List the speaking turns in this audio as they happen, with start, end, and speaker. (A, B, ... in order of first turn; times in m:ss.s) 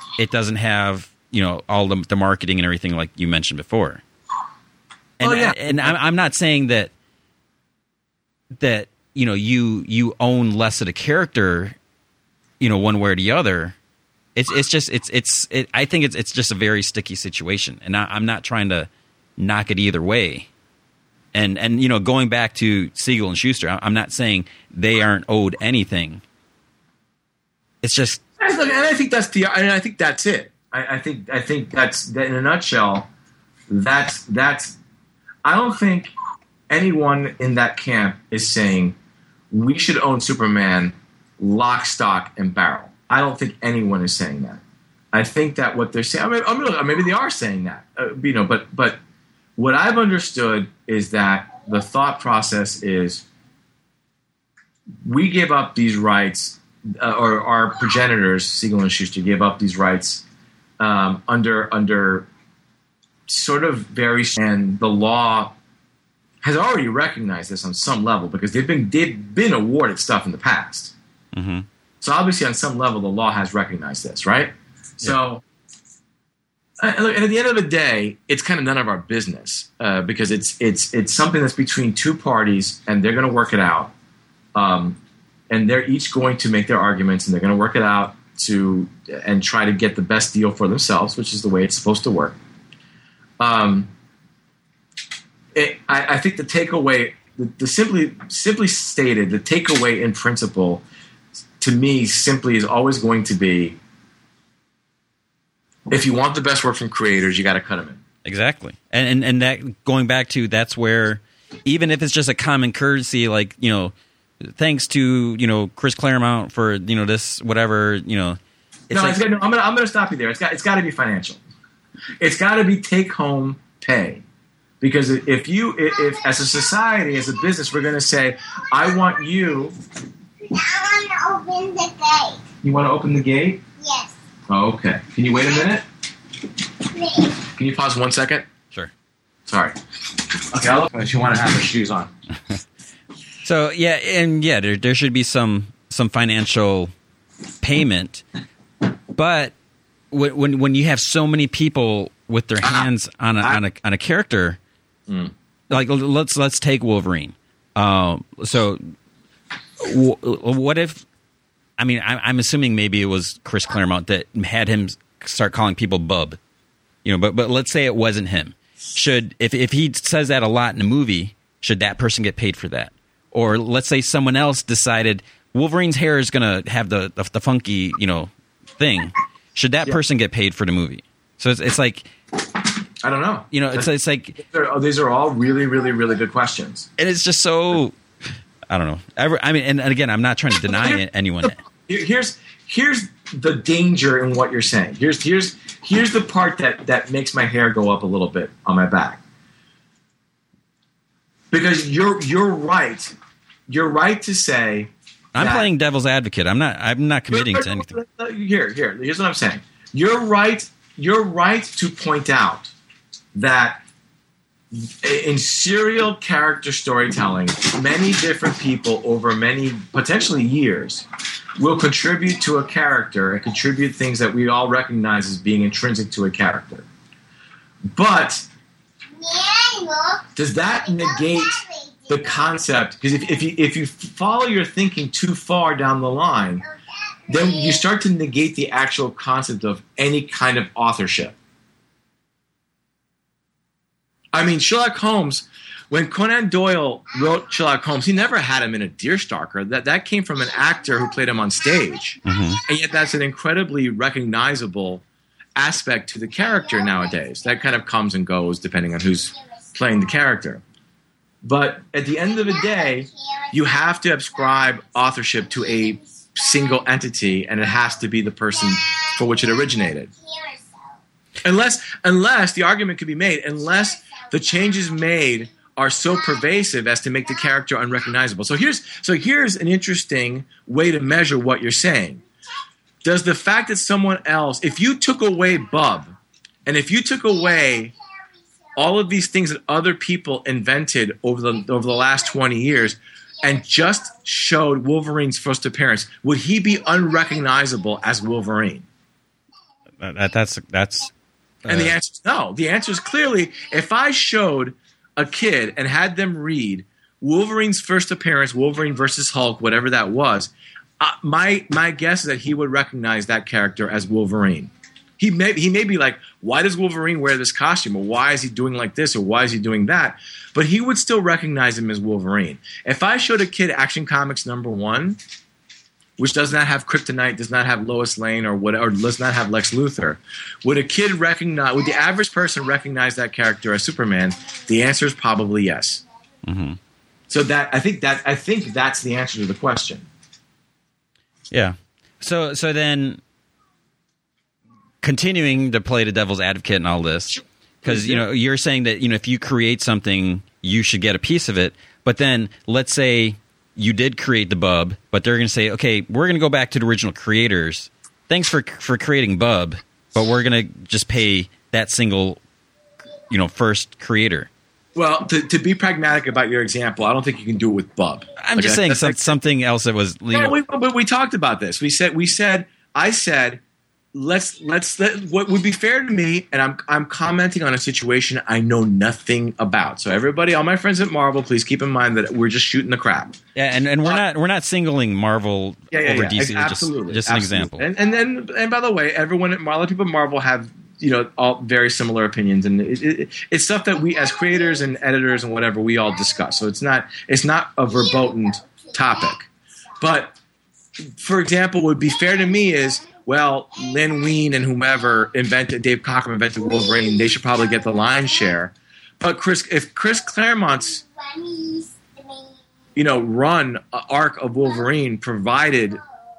0:00.2-0:04.0 A
0:05.2-0:06.9 A
0:05.2-0:06.0 B
0:08.6-0:11.8 A
0:12.6-0:13.8 A
0:14.4-0:20.5 A
0:21.3-0:26.2 A
0:27.8-0:28.2 A
0:28.4-0:33.1 B
0:33.7-0:34.8 B
0:35.4-0:36.1 B
0:36.7-0:39.0 B
0:39.5-0:44.6 B
0:45.1-0:49.0 B
0:49.6-0:53.2 B
0:55.0-1:00.2 B
1:00.8-1:02.3 B
1:03.3-1:05.6 B
1:06.4-1:10.9 B
1:11.3-1:11.6 A
1:12.0-1:15.4 B
1:16.8-1:23.9 B
1:24.5-1:25.0 B
1:25.5-1:32.4 B
1:33.4-1:33.9 B
1:35.5-1:40.8 B
1:41.6-1:43.8 B
1:45.9-1:48.0 B
1:48.2-1:58.4 A
1:58.9-1:59.2 A
1:58.9-2:01.4 B
2:02.2-2:04.2 B
2:04.8-2:09.7 B
2:10.4-2:12.4 C
2:12.6-2:13.6 B
2:13.8-2:14.1 C
2:14.5-2:15.8 B
2:16.9-2:17.3 C
2:17.5-2:18.5 B
2:19.4-2:19.8 B
2:20.3-2:22.1 B
2:23.4-2:26.9 A
2:27.6-2:28.2 A
2:29.1-2:29.5 A
2:30.1-2:34.6 A
2:35.1-2:35.3 B
2:35.7-2:38.9 A
2:39.8-2:41.0 A
2:41.8-2:46.4 A
2:47.0-3:02.1 A
3:03.0-3:06.9 B
3:03.5-3:04.4 A
3:07.0-3:08.0 A
3:08.7-3:11.6 A
3:10.6-3:19.2 B
3:21.5-3:23.1 B
3:23.7-3:25.7 B
3:25.3-3:27.9 A
3:27.3-3:32.7 B
3:33.3-3:33.8 B
3:34.7-3:41.0 B
3:41.6-3:46.8 B
3:47.9-3:48.5 B
3:49.2-3:52.4 C
3:50.4-3:56.6 B
3:56.7-3:57.8 C
3:57.3-4:01.3 B
4:04.3-4:15.0 B
4:12.2-4:12.6 A
4:15.6-4:20.6 B
4:16.7-4:17.4 C
4:21.4-4:30.1 B
4:22.3-4:23.6 C
4:25.5-4:26.8 C
4:28.7-4:30.7 C
4:31.4-4:42.2 B
4:34.0-4:34.8 C
4:43.0-4:46.1 B
4:46.6-4:47.9 B
4:48.8-4:58.8 B
5:00.0-5:01.1 A
5:01.6-5:01.9 A
5:01.7-5:25.2 B
5:26.2-5:36.0 B
5:36.4-5:36.8 A
5:37.3-5:40.1 B
5:41.5-5:43.2 A
5:45.0-6:02.4 A
5:47.8-5:48.2 B
6:03.3-6:04.5 A
6:04.9-6:09.4 B
6:08.4-6:10.6 A
6:10.3-6:13.6 B
6:14.1-6:23.4 B
6:23.5-6:27.9 A
6:25.9-6:39.5 B
6:34.2-6:34.8 C
6:38.1-6:39.0 C
6:40.0-6:40.4 B
6:41.2-6:51.0 B
6:42.3-6:42.9 C
6:43.9-6:44.4 C
6:46.7-6:48.3 C
6:51.2-6:52.5 C
6:53.0-6:56.0 B